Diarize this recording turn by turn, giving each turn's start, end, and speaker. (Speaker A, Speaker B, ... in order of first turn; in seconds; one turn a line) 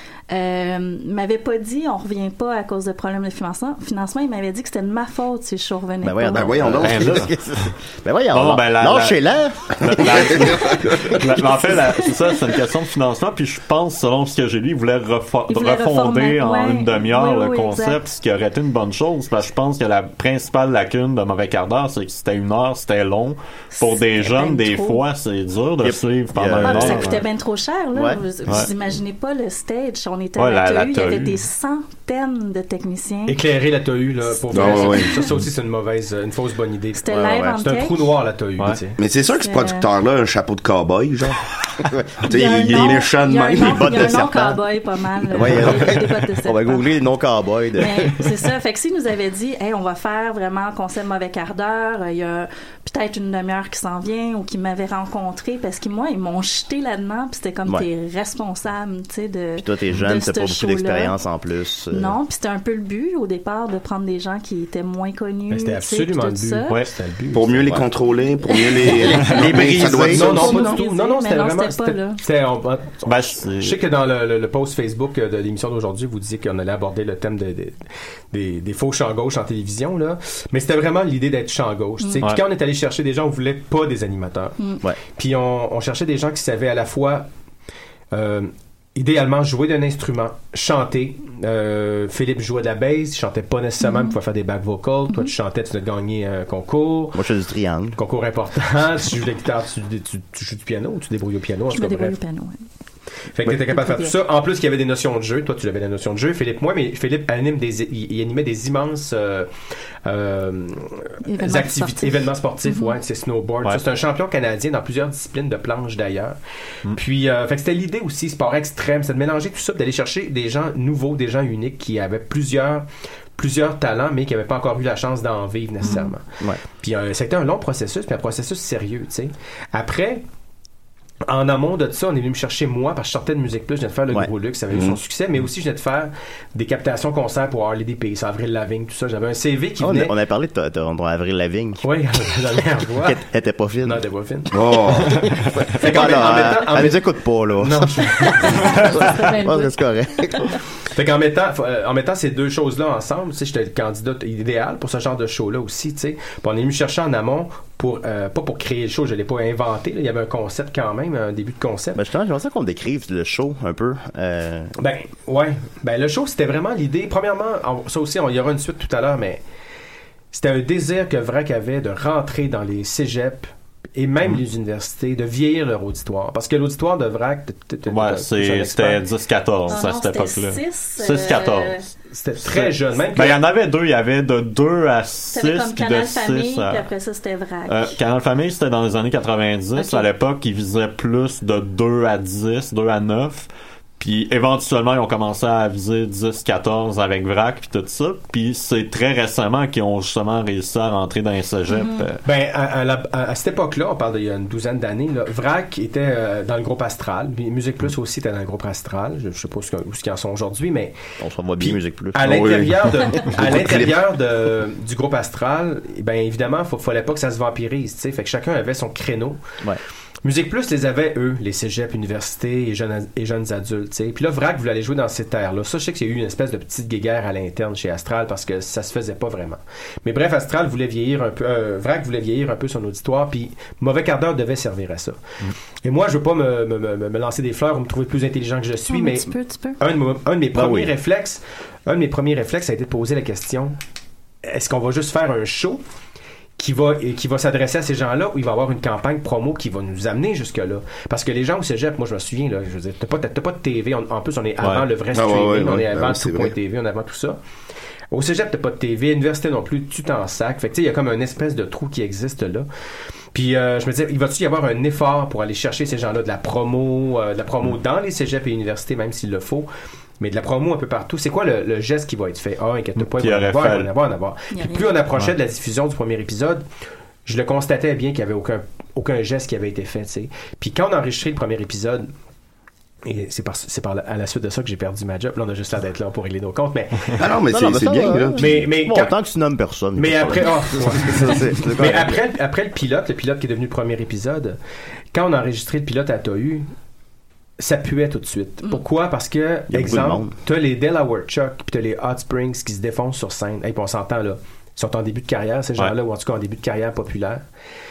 Speaker A: 0.3-6.9
Speaker B: 6.0-11.3
Speaker C: 6.3-7.2
Speaker D: 6.8-7.3
Speaker D: 8.3-9.2
Speaker D: 9.8-27.2
Speaker C: 10.5-11.0
Speaker A: 15.5-18.0
Speaker A: 23.7-25.0
Speaker B: 25.8-27.2
Speaker A: 26.6-33.4
Speaker B: 27.9-28.2
Speaker D: 30.4-31.4
Speaker E: 33.3-39.0
Speaker A: 34.3-35.3
Speaker C: 34.5-35.1
Speaker A: 37.0-38.1
Speaker B: 37.1-37.6
Speaker C: 39.0-44.3
Speaker A: 39.4-39.9
Speaker B: 41.9-43.0
Speaker A: 42.3-46.9
Speaker B: 43.5-44.6
Speaker B: 45.3-48.2
Speaker A: 47.8-61.1
Speaker B: 59.6-62.2
Speaker A: 61.9-66.8
Speaker E: 65.5-67.8
Speaker C: 67.3-70.8
Speaker A: 68.5-68.9
Speaker B: 68.7-70.5
Speaker E: 69.7-84.6
Speaker A: 70.1-72.2
Speaker D: 73.1-73.8
Speaker A: 82.0-82.3
Speaker E: 85.2-87.3
Speaker E: 88.1-97.2
Speaker A: 93.8-94.2
Speaker B: 97.2-98.0
Speaker E: 98.0-102.2
Speaker A: 101.7-102.6
Speaker E: 103.3-109.5
Speaker A: 103.4-104.2
Speaker E: 110.0-116.4
Speaker A: 111.2-113.0
Speaker E: 116.9-126.2
Speaker A: 125.8-126.1
Speaker E: 126.8-130.2
Speaker E: 131.3-140.1
Speaker C: 134.7-135.0
Speaker B: 139.8-141.8
Speaker E: 141.8-143.2
Speaker B: 143.0-144.0
Speaker E: 143.8-144.6
Speaker C: 144.5-145.2
Speaker B: 145.7-150.5
Speaker E: 145.8-147.1
Speaker E: 147.6-148.8
Speaker A: 148.2-149.8
Speaker E: 150.9-162.0
Speaker B: 162.0-164.7
Speaker E: 164.8-169.4
Speaker E: 170.3-179.0
Speaker D: 177.9-181.8
Speaker A: 179.7-181.8
Speaker E: 182.1-183.4
Speaker D: 182.5-186.9
Speaker A: 185.3-188.0
Speaker D: 187.7-202.2
Speaker A: 189.8-190.1
Speaker A: 201.7-202.0
Speaker E: 202.2-211.0
Speaker B: 211.2-212.6
Speaker E: 211.6-219.4
Speaker C: 212.2-214.1
Speaker E: 220.2-235.2
Speaker E: 235.8-243.8
Speaker A: 238.9-239.8
Speaker B: 240.5-240.9
Speaker E: 244.4-245.8
Speaker E: 246.6-257.4
Speaker C: 255.1-256.6
Speaker E: 258.1-262.7
Speaker E: 263.3-269.7
Speaker E: 270.2-276.6
Speaker D: 273.0-273.9
Speaker A: 274.5-275.0
Speaker E: 277.2-282.1
Speaker E: 283.1-287.2
Speaker C: 287.1-288.7
Speaker B: 287.5-292.2
Speaker E: 288.4-289.1
Speaker E: 290.0-294.6
Speaker E: 295.1-296.7
Speaker E: 297.6-307.4
Speaker B: 299.7-300.3